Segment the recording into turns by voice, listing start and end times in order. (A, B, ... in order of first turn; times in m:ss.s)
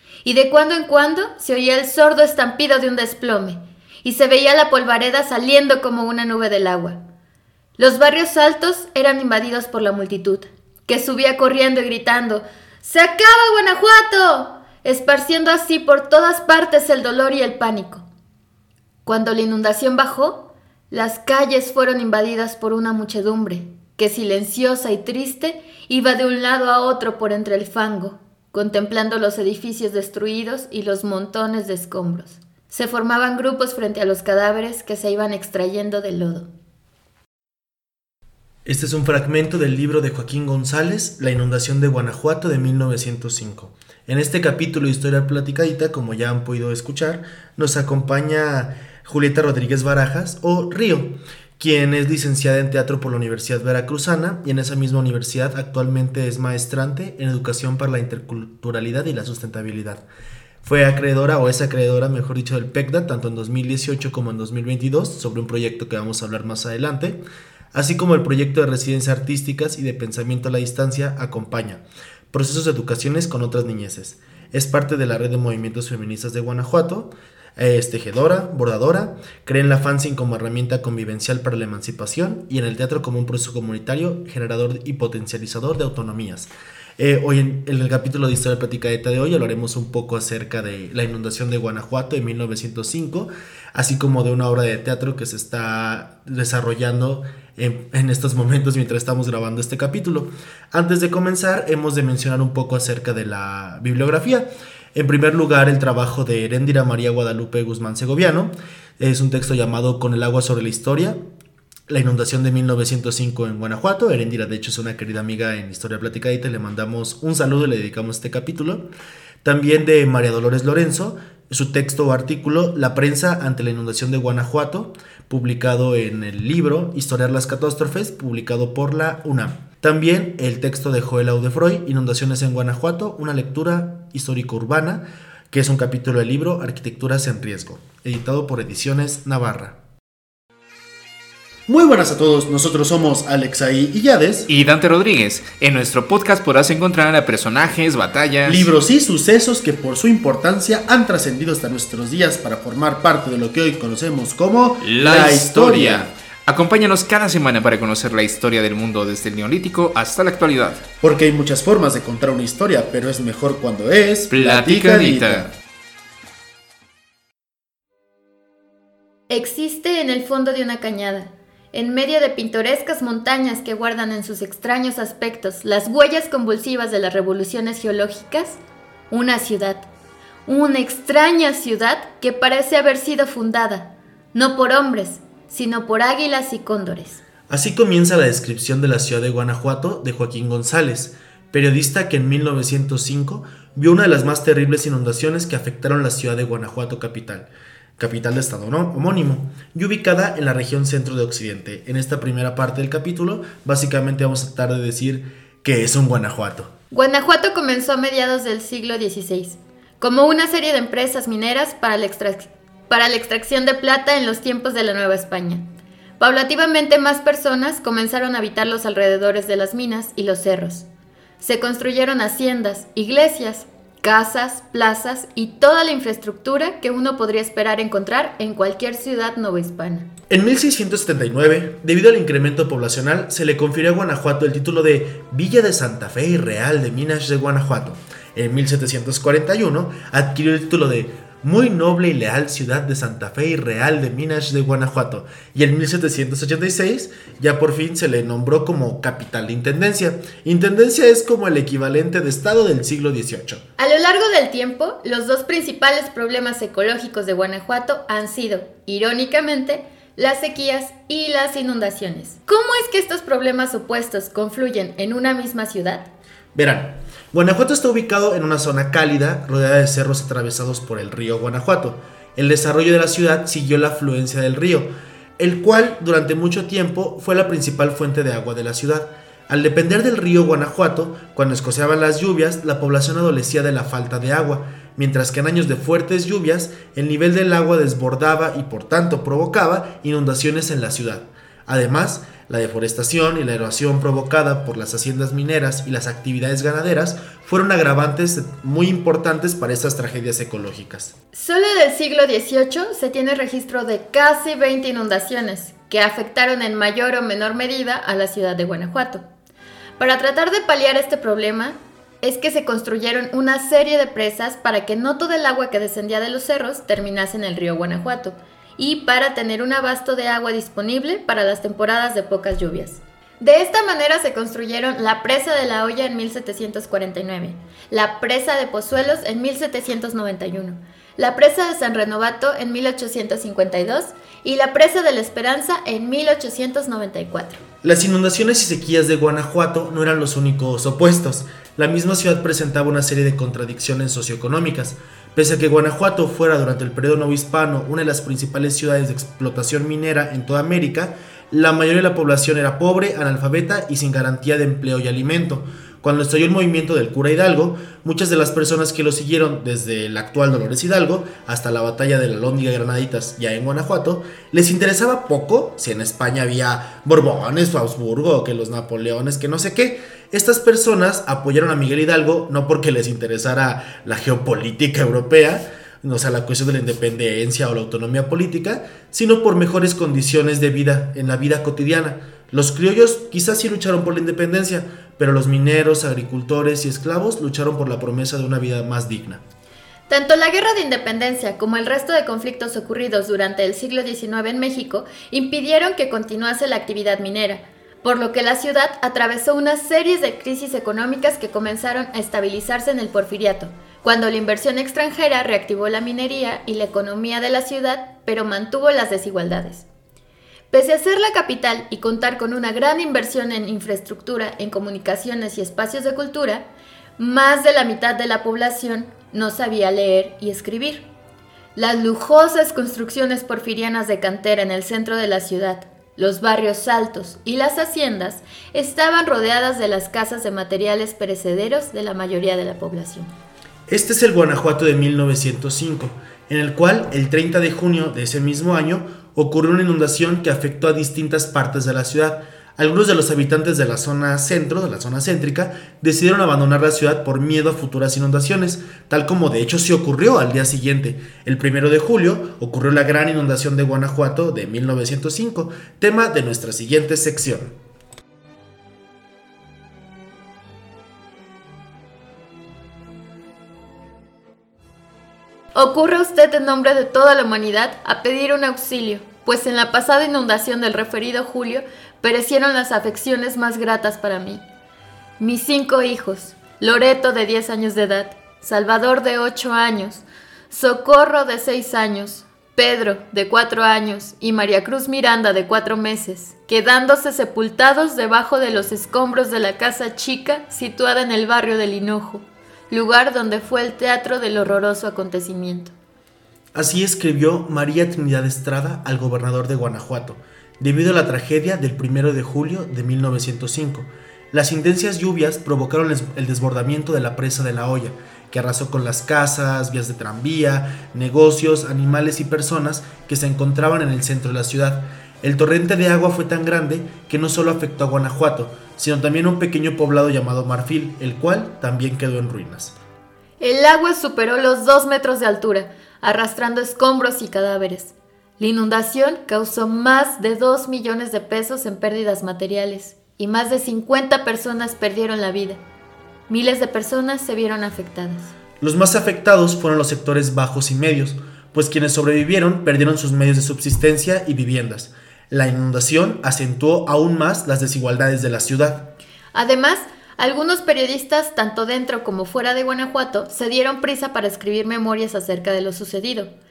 0:00.2-0:07.0 A
0:07.8-0:18.0 A
0:19.0-0:36.5 A
0:38.6-1:00.0 B
1:00.6-1:07.2 B
1:07.7-1:51.2 B
1:51.9-1:58.8 B
1:59.4-2:19.8 B
2:21.7-2:24.5 B
2:24.5-2:28.7 C
2:28.4-2:36.1 B
2:34.8-2:40.8 C
2:41.0-2:45.5 B
2:44.3-2:45.5 C
2:49.3-2:59.9 A
3:00.4-3:07.2 A
3:07.5-3:26.7 B
3:26.9-3:35.6 A
3:36.2-3:40.9 A
3:41.4-3:50.1 A
3:50.3-4:13.6 B
4:13.8-4:26.1 A
4:26.5-5:01.1 B
5:01.3-5:09.2 A
5:10.0-5:37.6 A
5:37.8-6:29.4 B
6:30.1-6:49.8 A
6:50.7-6:56.6 A
6:57.2-7:01.0 A
7:01.8-7:13.3 A
7:13.9-7:37.8 B
7:45.7-7:54.6 A
7:55.4-8:15.9 A
8:16.7-8:42.9 B
8:43.6-8:55.8 A
8:56.5-8:58.5 A
8:58.8-9:09.1 B
9:09.5-9:16.5 A